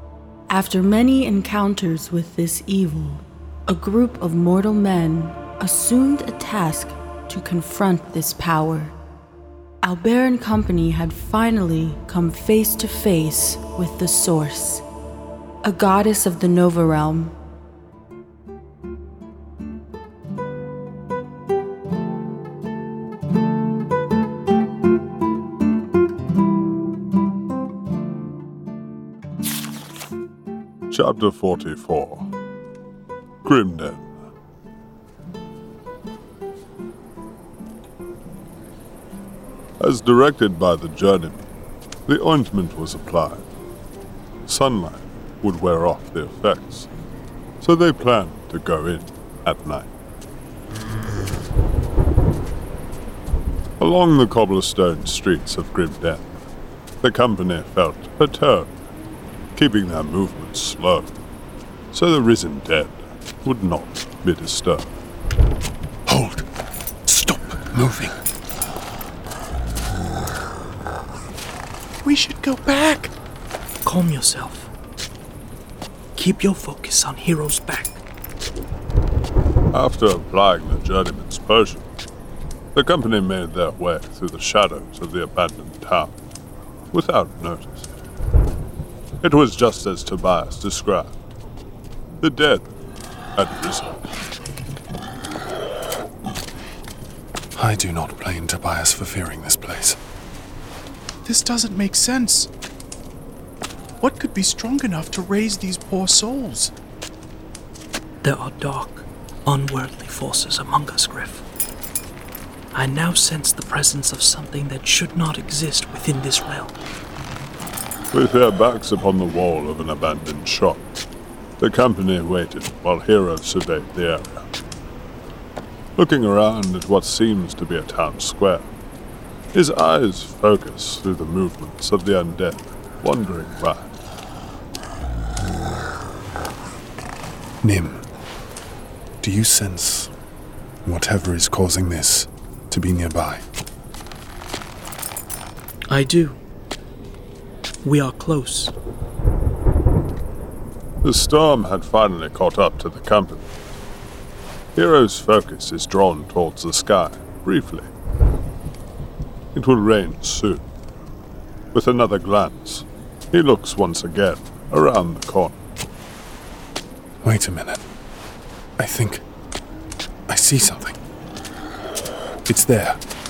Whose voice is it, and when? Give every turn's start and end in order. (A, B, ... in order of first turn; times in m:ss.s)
0:00.5-0:08.9 A
0:09.8-0:14.8 A
0:15.6-0:17.3 A
0:30.9-0:32.3 B
0:33.4-0:34.1 B
0:39.8-0:41.5 B
0:42.1-0:43.5 B
0:44.4-0:46.9 B
0:47.6-0:49.9 B
0:53.8-0:56.3 B
0:57.0-0:58.7 B
0:59.6-1:01.1 B
1:01.9-1:04.9 B
1:06.1-1:06.4 C
1:07.0-1:08.2 C
1:12.0-1:13.1 D
1:13.8-1:14.7 E
1:16.2-1:18.0 E
1:19.7-1:21.9 B
1:22.7-1:26.1 B
1:26.9-1:27.9 B
1:29.2-1:31.1 B
1:32.2-1:32.6 B
1:33.4-1:33.9 B
1:37.6-1:40.0 C
1:41.2-1:42.5 D
1:44.0-1:46.7 D
1:48.2-1:51.4 E
1:52.7-1:56.7 E
1:58.1-2:01.0 B
2:01.6-2:04.4 B
2:06.0-2:08.7 B
2:09.5-2:13.9 B
2:17.6-2:18.0 C
2:19.2-2:20.1 C
2:20.8-2:23.4 C
2:25.9-2:26.4 E
2:27.8-2:28.7 E
2:31.0-2:33.5 B
2:34.8-2:37.9 B
2:39.5-2:40.6 B
2:41.7-2:45.6 B
2:47.2-2:47.8 C
2:48.8-2:49.2 C
2:50.3-2:51.0 C
2:52.5-2:53.0 C